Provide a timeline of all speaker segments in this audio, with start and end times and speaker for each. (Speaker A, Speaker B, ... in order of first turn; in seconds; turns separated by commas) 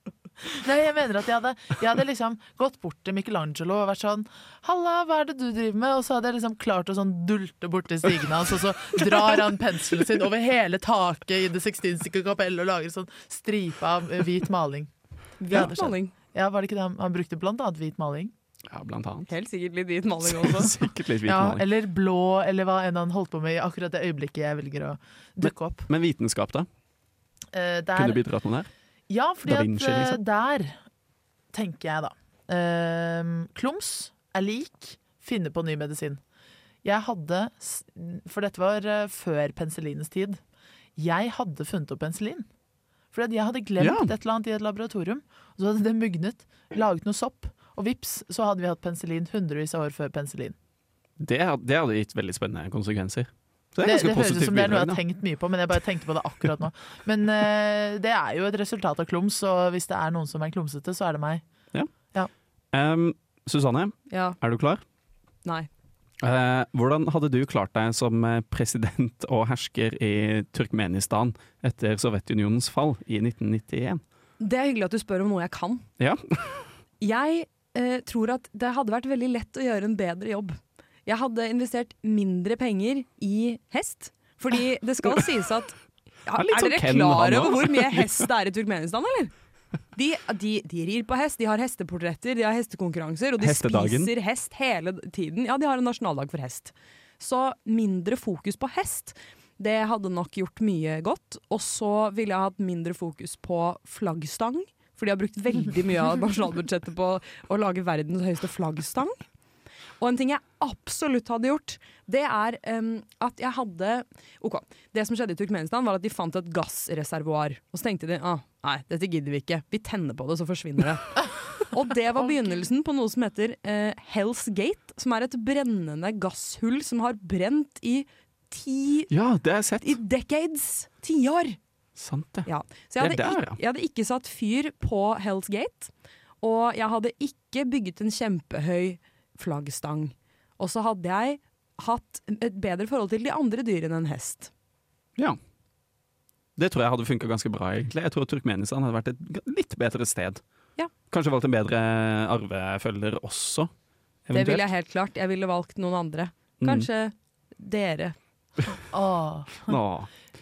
Speaker A: 0.5-14.9, Speaker B: 15.4-16.1, Speaker A: 15.5-18.3, Speaker C: 18.7-19.3, Speaker B: 19.3-20.7, Speaker C: 20.2-21.6, Speaker A: 21.2-25.9, Speaker C: 25.4-26.7, Speaker A: 27.5-28.2, Speaker C: 27.9-28.7, Speaker A: 29.1-30.8, Speaker C: 29.4-30.2, Speaker A: 31.5-36.2, Speaker A: 36.8-40.4, Speaker A: 41.0-42.5, Speaker A: 43.1-50.5, Speaker C: 43.8-44.1, Speaker C: 51.2-55.0, Speaker A: 53.8-61.4, Speaker C: 62.7-64.8, Speaker B: 64.1-64.4, Speaker C: 66.2-74.0, Speaker B: 74.4-75.8, Speaker C: 76.0-76.7, Speaker B: 77.0-89.3, Speaker C: 86.3-88.3, Speaker B: 89.9-109.1, Speaker C: 93.4-94.1, Speaker B: 110.0-129.1, Speaker C: 129.1-130.0, Speaker B: 129.8-131.6, Speaker C: 131.9-133.6, Speaker B: 132.4-135.9, Speaker B: 136.4-144.5, Speaker C: 146.6-150.4, Speaker C: 151.1-153.7, Speaker C: 154.3-154.7, Speaker B: 154.3-158.2, Speaker C: 156.6-156.9, Speaker A: 158.9-159.8, Speaker C: 159.7-160.1